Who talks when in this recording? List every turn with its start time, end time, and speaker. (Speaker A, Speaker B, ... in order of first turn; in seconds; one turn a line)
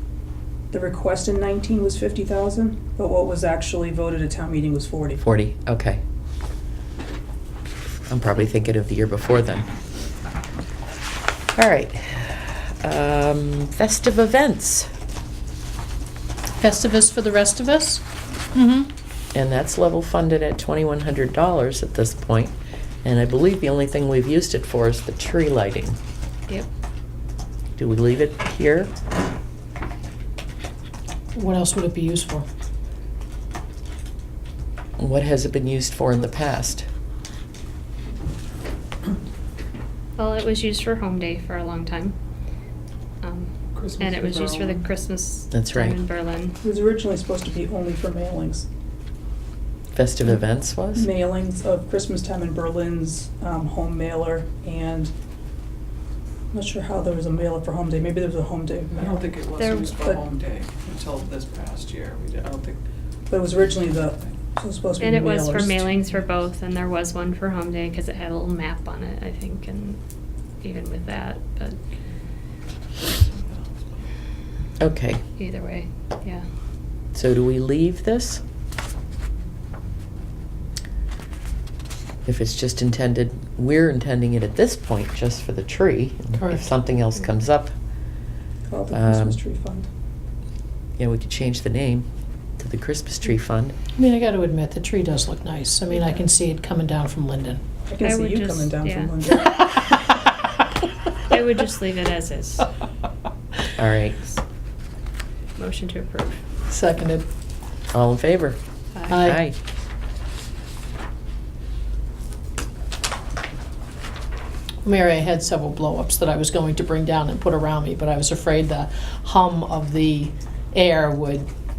Speaker A: 0.7-5.2
Speaker B: 5.2-6.0
Speaker B: 8.1-9.7
Speaker B: 11.5-14.9
Speaker C: 16.6-18.9
Speaker B: 19.3-26.0
Speaker B: 27.8-28.9
Speaker C: 31.3-32.4
Speaker B: 35.0-36.9
Speaker D: 40.1-42.1
Speaker D: 43.2-46.6
Speaker E: 43.7-44.8
Speaker B: 45.5-46.0
Speaker A: 46.6-48.6
Speaker B: 49.9-51.1
Speaker A: 50.9-55.1
Speaker A: 56.5-59.3
Speaker E: 58.9-62.8
Speaker D: 59.6-59.9
Speaker A: 59.9-60.3
Speaker A: 63.3-66.1
Speaker D: 65.0-70.0
Speaker D: 70.6-71.8
Speaker B: 74.8-75.2
Speaker D: 75.4-76.4
Speaker B: 77.1-78.4
Speaker B: 82.2-87.7
Speaker C: 86.3-86.6
Speaker A: 88.7-89.9
Speaker B: 88.9-89.4
Speaker B: 91.0-92.1
Speaker B: 92.6-93.7
Speaker C: 94.0-97.6
Speaker A: 97.9-99.8
Speaker D: 98.0-99.1
Speaker D: 101.2-102.7
Speaker B: 103.7-104.2
Speaker D: 105.6-106.4
Speaker C: 106.7-107.2
Speaker B: 107.9-108.6
Speaker D: 108.9-109.2
Speaker C: 109.1-109.4
Speaker B: 109.2-109.5
Speaker C: 114.8-121.5